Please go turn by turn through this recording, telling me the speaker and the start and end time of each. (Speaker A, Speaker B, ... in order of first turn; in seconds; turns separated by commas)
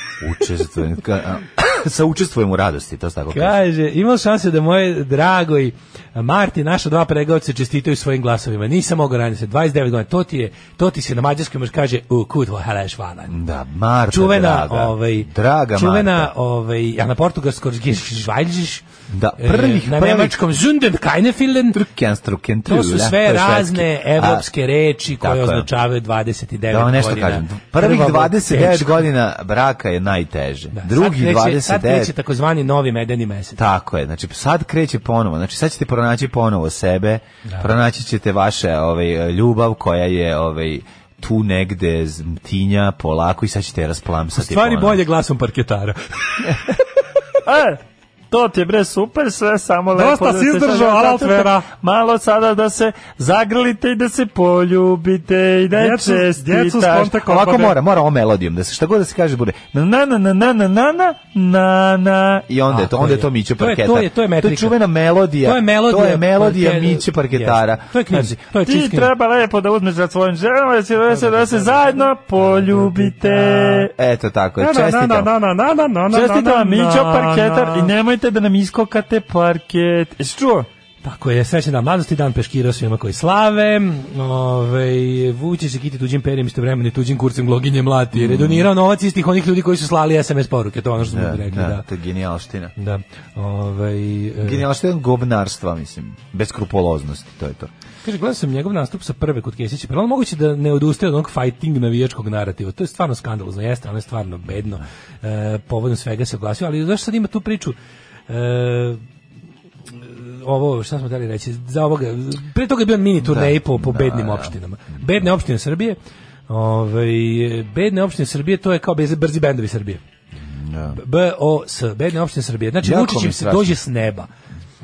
Speaker A: 0.2-3.6, Speaker B: 3.3-13.3, Speaker A: 13.3-16.3, Speaker B: 14.1-18.8, Speaker A: 19.1-20.4, Speaker B: 19.4-21.8, Speaker A: 21.7-24.4, Speaker B: 22.6-29.1, Speaker A: 25.1-25.7, Speaker A: 26.7-32.1, Speaker B: 30.7-33.6, Speaker A: 33.6-45.0, Speaker B: 44.3-46.6, Speaker C: 47.5-57.8, Speaker B: 49.9-51.5, Speaker B: 55.8-57.0, Speaker A: 57.0-68.3, Speaker B: 62.7-64.8, Speaker B: 65.4-69.1, Speaker C: 68.6-73.9, Speaker B: 71.1-73.7, Speaker A: 73.8-75.3, Speaker C: 74.6-80.7, Speaker B: 76.2-77.8, Speaker B: 81.0-91.8, Speaker A: 88.1-88.7, Speaker A: 91.0-92.7, Speaker B: 92.8-94.6, Speaker A: 94.4-97.7, Speaker B: 98.0-107.8, Speaker B: 108.3-109.0, Speaker B: 109.9-116.0, Speaker A: 113.2-114.5, Speaker B: 116.5-120.0, Speaker A: 120.4-121.0, Speaker B: 120.9-124.3, Speaker A: 122.8-123.8